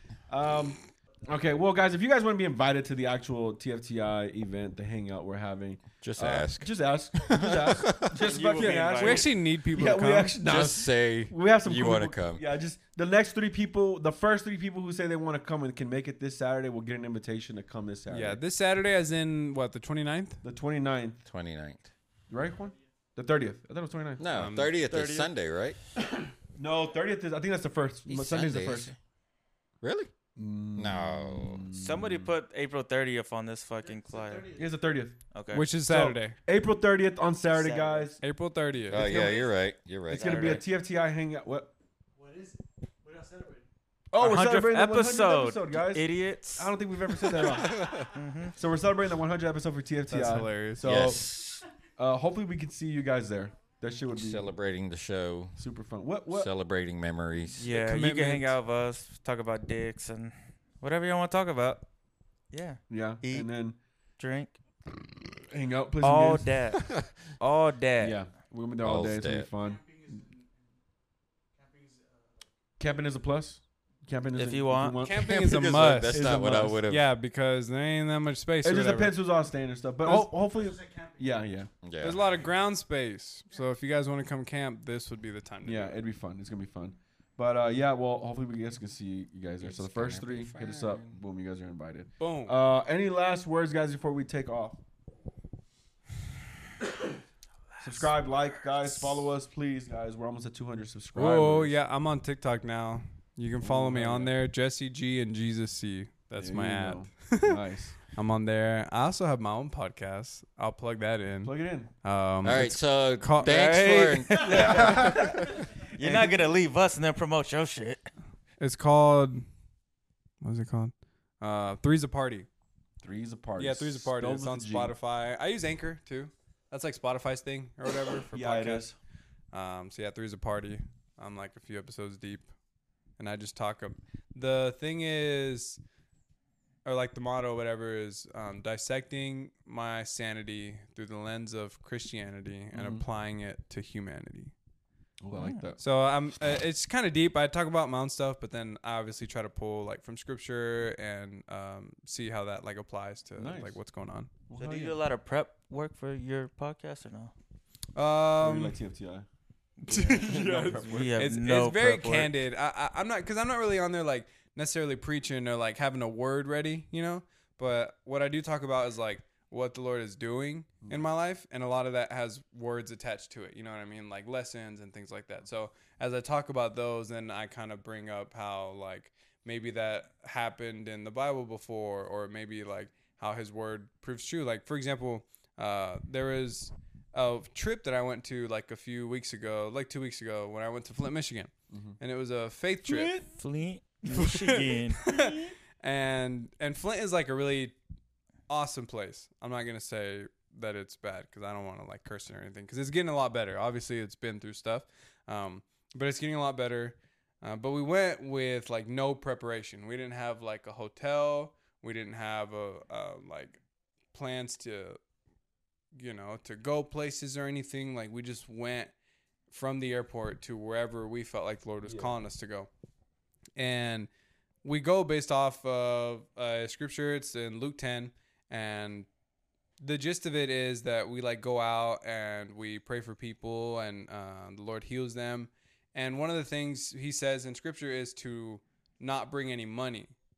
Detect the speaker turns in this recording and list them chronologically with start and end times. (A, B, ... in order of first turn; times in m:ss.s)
0:00.3-0:18.4 A
0:06.0-0:08.1 B
0:08.2-0:09.3 C
0:08.6-0:10.4 D
0:10.4-0:12.4 B
0:18.1-0:20.4 D
0:20.4-0:21.2 A
0:21.2-0:21.9 B
0:22.3-0:24.2 A
0:22.4-0:22.8 E
0:24.2-0:25.8 B
0:24.3-0:24.8 D
0:24.9-0:25.3 C
0:26.1-0:28.9 A
0:28.0-0:28.9 B
0:29.8-0:30.1 B
0:30.4-0:32.3 A
0:30.8-0:31.6 B
0:31.7-0:34.5 C
0:33.8-0:34.7 E
0:34.6-0:35.2 A
0:35.3-0:35.6 C
0:35.5-0:36.4 D
0:35.9-0:38.2 A
0:37.5-0:38.2 C
0:38.2-0:39.4 D
0:38.9-0:40.6 B
0:39.0-0:39.6 E
0:40.1-0:41.7 A
0:40.1-0:40.6 C
0:42.2-0:43.7 E
0:44.1-0:48.0 A
0:44.2-0:46.8 C
0:47.3-0:48.1 B
0:47.7-0:48.1 E
0:48.1-0:48.5 C
0:48.5-0:51.3 A
0:50.1-0:50.9 D
0:50.8-0:51.6 B
0:52.0-0:54.5 A
0:54.1-0:55.6 B
0:55.6-0:56.5 A
0:56.3-0:57.7 B
0:57.6-1:01.9 C
0:57.7-0:58.6 D
1:02.5-1:03.5 C
1:02.9-1:03.8 A
1:04.2-1:04.6 C
1:05.4-1:06.5 A
1:06.0-1:08.2 C
1:08.0-1:09.8 A
1:08.8-1:09.5 B
1:09.6-1:10.8 E
1:11.5-1:12.5 E
1:12.8-1:16.8 A
1:14.3-1:15.0 C
1:15.0-1:19.1 D
1:15.1-1:17.0 B
1:18.6-1:21.7 A
1:20.2-1:21.4 E
1:21.8-1:22.2 B
1:22.0-1:26.0 D
1:25.6-1:34.8 A
1:29.6-1:31.2 B
1:32.2-1:32.6 D
1:37.8-1:41.8 A
1:41.1-1:47.6 D
1:43.6-1:44.3 A
1:46.4-1:48.0 A
1:48.1-1:54.8 D
1:51.4-1:51.9 A
1:52.4-1:55.6 B
1:54.3-1:54.6 E
1:54.4-1:56.4 A
1:55.9-1:58.1 C
1:58.6-1:59.4 D
2:00.4-2:02.5 D
2:03.0-2:04.9 A
2:03.6-2:08.9 D
2:08.3-2:09.0 A
2:09.5-2:12.5 D
2:13.2-2:15.8 D
2:16.8-2:24.5 D
2:22.7-2:23.0 A
2:25.2-2:25.8 A
2:25.8-2:34.3 D
2:33.4-2:33.8 A
2:34.5-2:35.0 A
2:34.5-2:37.3 C
2:37.9-2:38.8 D
2:38.4-2:39.2 A
2:39.8-2:42.3 C
2:39.8-3:13.2 D
2:40.2-2:41.2 A
2:50.8-2:51.1 A
3:11.7-3:12.0 A
3:12.8-3:15.0 C
3:14.1-3:17.8 D
3:18.5-3:33.6 D
3:34.1-3:35.0 D
3:36.0-3:38.9 D
3:39.5-3:42.7 D
3:41.8-3:42.1 A
3:43.6-3:44.1 D
3:44.6-3:49.1 D
3:49.8-4:00.1 D